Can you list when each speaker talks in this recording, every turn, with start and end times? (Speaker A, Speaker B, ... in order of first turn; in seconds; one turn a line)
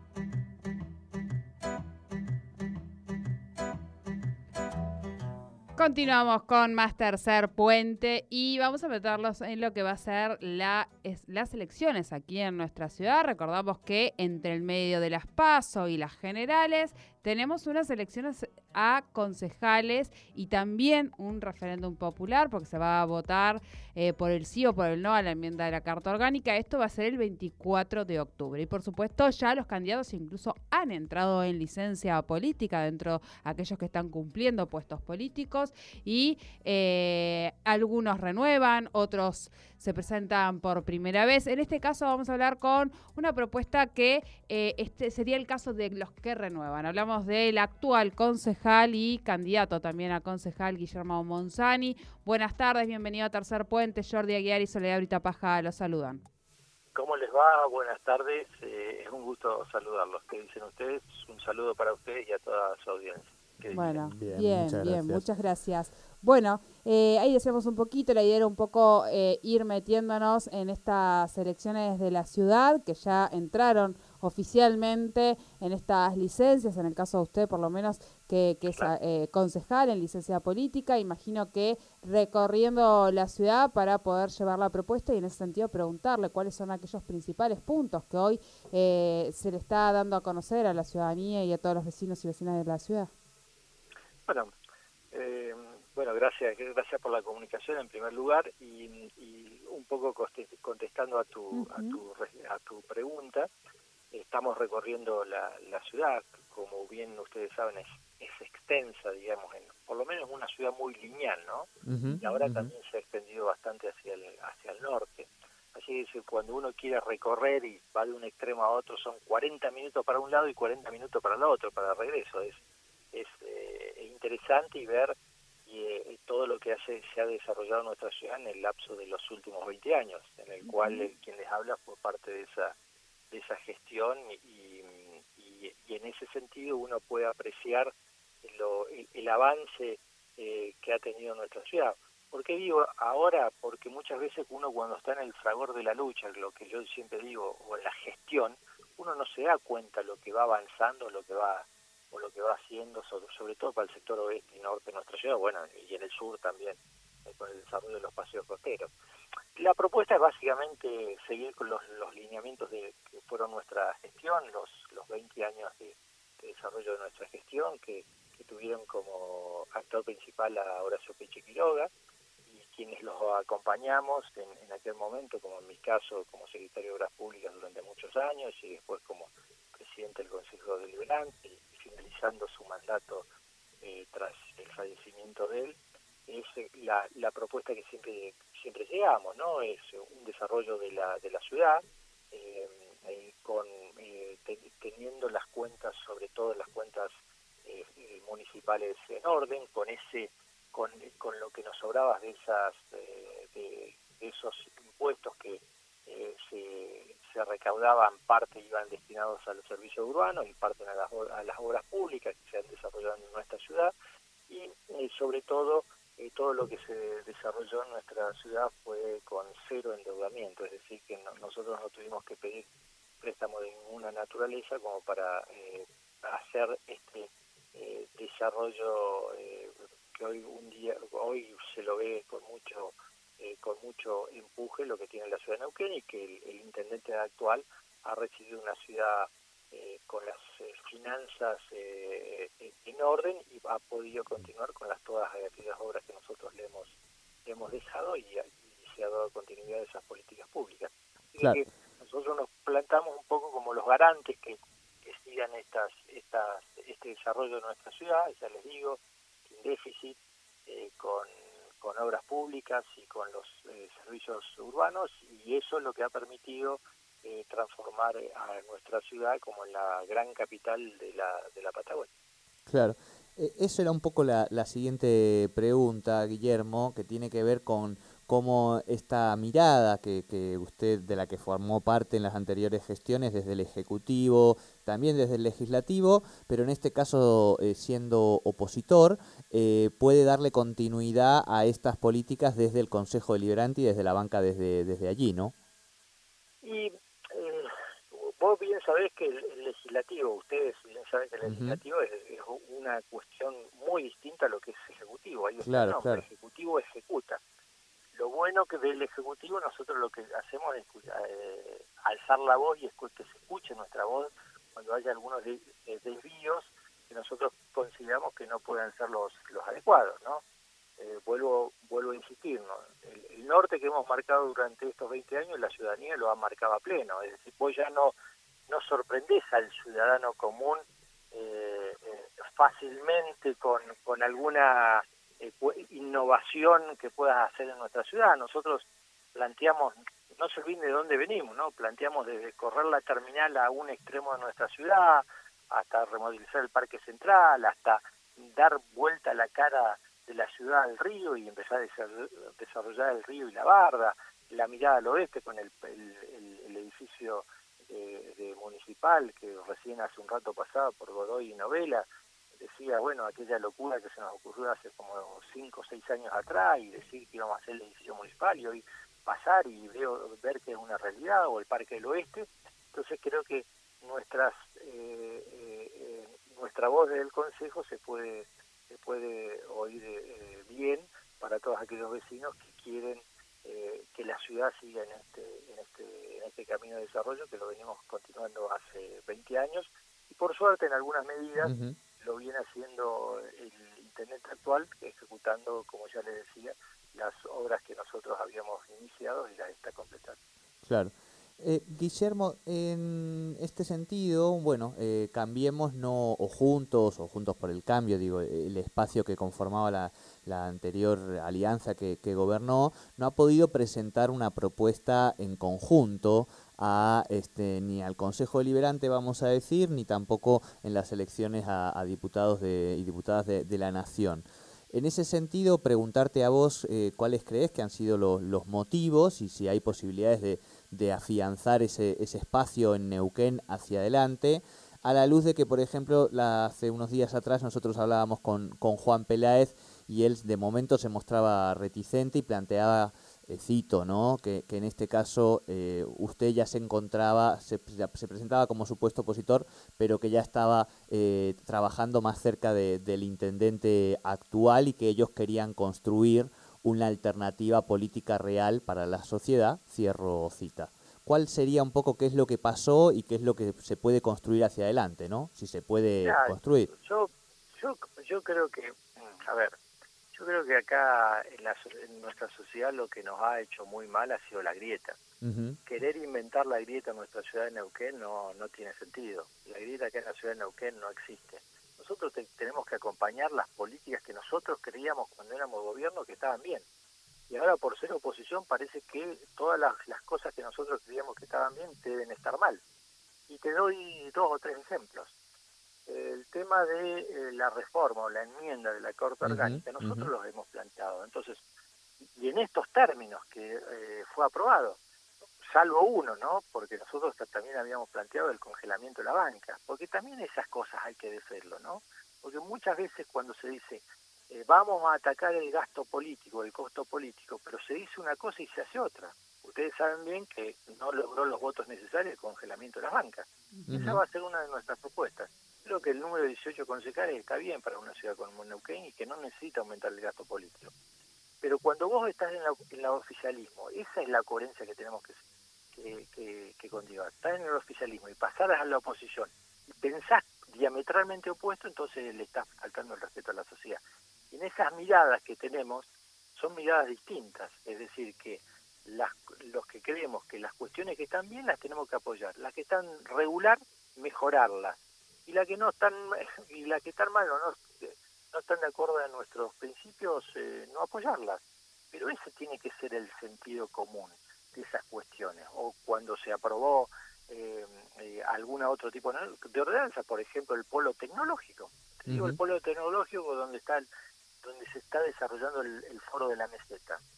Speaker A: 5.8-56.2
Speaker B: 56.9-64.0
Speaker C: 63.6-65.2
Speaker A: 63.7-93.1
Speaker B: 94.2-94.5
Speaker B: 95.1-103.5
Speaker A: 101.5-102.0
Speaker B: 104.1-122.6
Speaker C: 111.8-112.7
Speaker B: 123.1-125.1
Speaker B: 125.7-132.7
Speaker A: 130.6-131.1
Speaker B: 133.3-158.9
Speaker B: 159.6-171.9
Speaker B: 172.4-183.2
Speaker B: 183.8-197.1
Speaker B: 197.6-213.9
Speaker B: 214.5-222.7
Speaker B: 223.2-246.9
Speaker B: 247.4-272.1
Speaker C: 272.7-295.5
Speaker B: 296.6-307.4
Speaker C: 301.4-301.8
Speaker C: 305.6-306.2
Speaker B: 308.1-320.4
Speaker B: 321.0-328.1
Speaker B: 328.7-362.0
Speaker B: 362.6-400.4
Speaker C: 391.6-391.9
Speaker C: 400.8-466.9
Speaker B: 466.2-469.8
Speaker B: 470.3-475.2
Speaker C: 475.4-475.8
Speaker B: 475.9-486.8
Speaker B: 487.5-492.8
Speaker B: 493.5-495.3
Speaker B: 496.1-501.6
Speaker C: 499.4-500.3
Speaker B: 502.3-505.0
Speaker B: 505.6-530.9
Speaker A: 523.8-524.1
Speaker C: 523.9-524.2
Speaker B: 531.6-535.4
Speaker B: 535.9-539.5
Speaker B: 540.0-574.0
Speaker C: 572.3-572.6
Speaker B: 574.6-577.2